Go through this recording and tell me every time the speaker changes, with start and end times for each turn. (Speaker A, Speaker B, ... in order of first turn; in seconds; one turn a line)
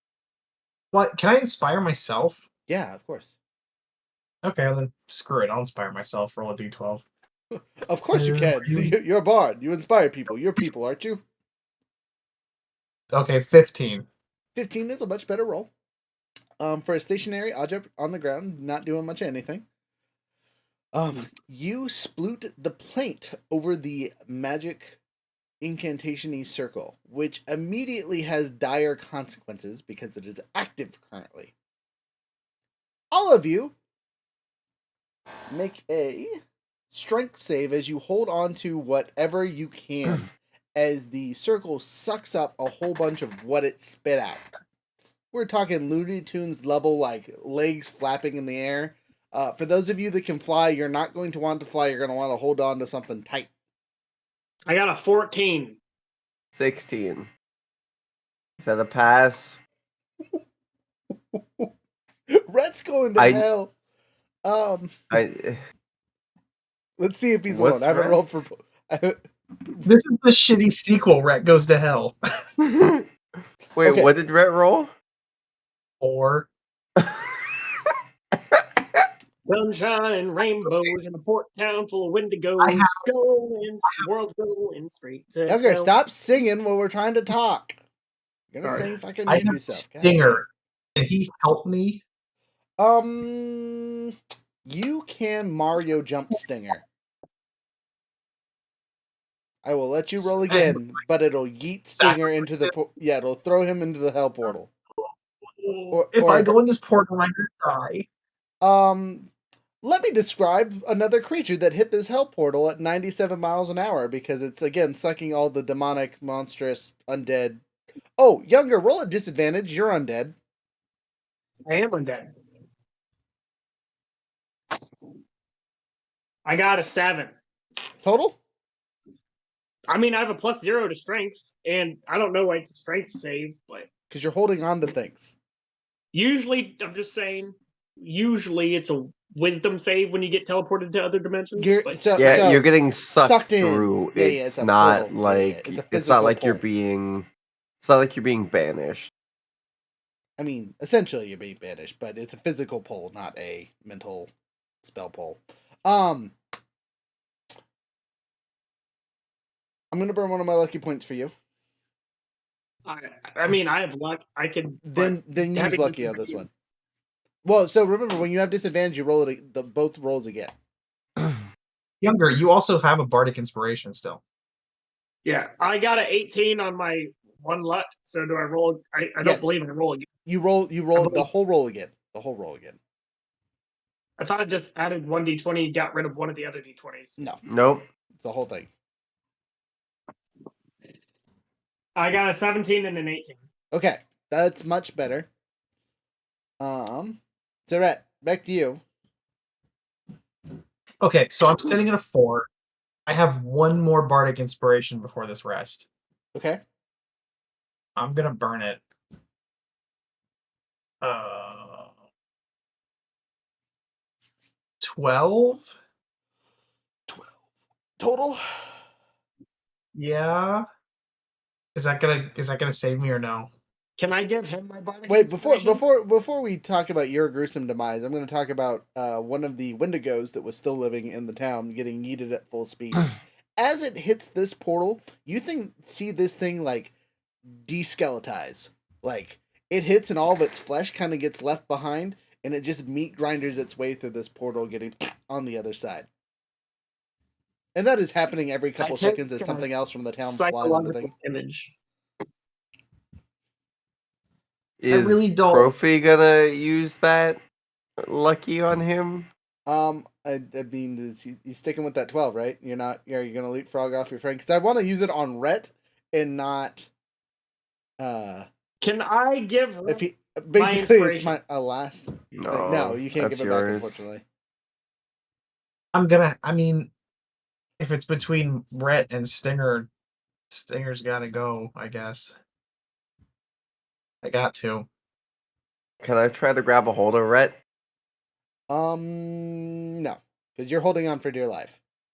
Speaker A: 0.9-2.4
Speaker B: 2.7-3.3
Speaker A: 4.4-7.0
Speaker B: 7.5-11.2
Speaker A: 8.1-8.9
Speaker A: 13.1-14.1
Speaker B: 14.6-15.7
Speaker B: 16.6-19.6
Speaker B: 20.9-25.0
Speaker B: 25.6-31.5
Speaker B: 33.1-33.8
Speaker B: 35.5-36.3
Speaker B: 36.9-44.5
Speaker B: 45.3-53.5
Speaker C: 54.7-55.8
Speaker D: 56.5-57.3
Speaker D: 58.6-59.6
Speaker B: 61.3-61.7
Speaker B: 62.5-63.7
Speaker D: 63.2-63.5
Speaker B: 64.5-64.9
Speaker D: 65.1-65.6
Speaker B: 67.0-69.9
Speaker D: 67.5-68.4
Speaker A: 69.8-72.2
Speaker D: 72.7-73.0
Speaker D: 73.8-74.9
Speaker B: 73.8-74.1
Speaker A: 76.0-76.5
Speaker D: 77.0-77.9
Speaker D: 78.5-79.0
Speaker C: 79.5-85.9
Speaker A: 82.6-83.0
Speaker B: 85.5-87.8
Speaker B: 88.5-90.4
Speaker C: 88.6-88.9
Speaker A: 89.3-92.0
Speaker B: 92.8-94.1
Speaker B: 94.7-96.8
Speaker B: 99.6-104.7
Speaker A: 100.2-101.1
Speaker A: 102.0-102.7
Speaker A: 105.6-108.1
Speaker B: 105.9-106.5
Speaker B: 108.6-109.3
Speaker B: 109.8-117.6
Speaker B: 118.2-120.4
Speaker C: 121.7-122.3
Speaker C: 126.5-127.3
Speaker B: 128.0-128.4
Speaker C: 129.9-133.9
Speaker B: 134.1-135.3
Speaker C: 136.1-142.5
Speaker B: 141.6-142.7
Speaker D: 142.2-147.3
Speaker B: 143.2-146.6
Speaker D: 147.8-149.1
Speaker B: 150.4-154.3
Speaker B: 154.8-156.3
Speaker B: 159.9-161.3
Speaker C: 162.9-166.4
Speaker B: 164.9-166.5
Speaker B: 167.4-170.5
Speaker A: 172.0-174.2
Speaker C: 175.2-180.1
Speaker B: 179.2-179.5
Speaker B: 180.3-182.8
Speaker C: 184.2-187.2
Speaker B: 187.2-187.4
Speaker D: 187.5-187.9
Speaker B: 188.2-188.7
Speaker C: 192.0-193.4
Speaker B: 193.7-195.3
Speaker B: 196.6-198.8
Speaker A: 201.0-202.5
Speaker A: 203.1-205.9
Speaker B: 206.3-206.6
Speaker A: 208.0-208.8
Speaker A: 211.0-211.9
Speaker A: 214.8-215.8
Speaker B: 218.0-218.7
Speaker A: 219.9-220.7
Speaker A: 221.8-223.5
Speaker C: 224.0-225.8
Speaker B: 225.1-236.9
Speaker B: 237.6-246.1
Speaker B: 247.8-251.1
Speaker C: 248.8-249.7
Speaker C: 250.2-251.7
Speaker D: 254.8-257.4
Speaker A: 254.9-255.8
Speaker D: 258.0-259.3
Speaker B: 259.7-266.9
Speaker B: 268.0-268.5
Speaker C: 268.8-271.4
Speaker B: 269.9-274.2
Speaker D: 272.3-274.0
Speaker A: 275.9-276.9
Speaker A: 277.8-279.9
Speaker A: 280.5-282.4
Speaker A: 284.2-284.9
Speaker D: 286.0-287.6
Speaker B: 288.7-291.8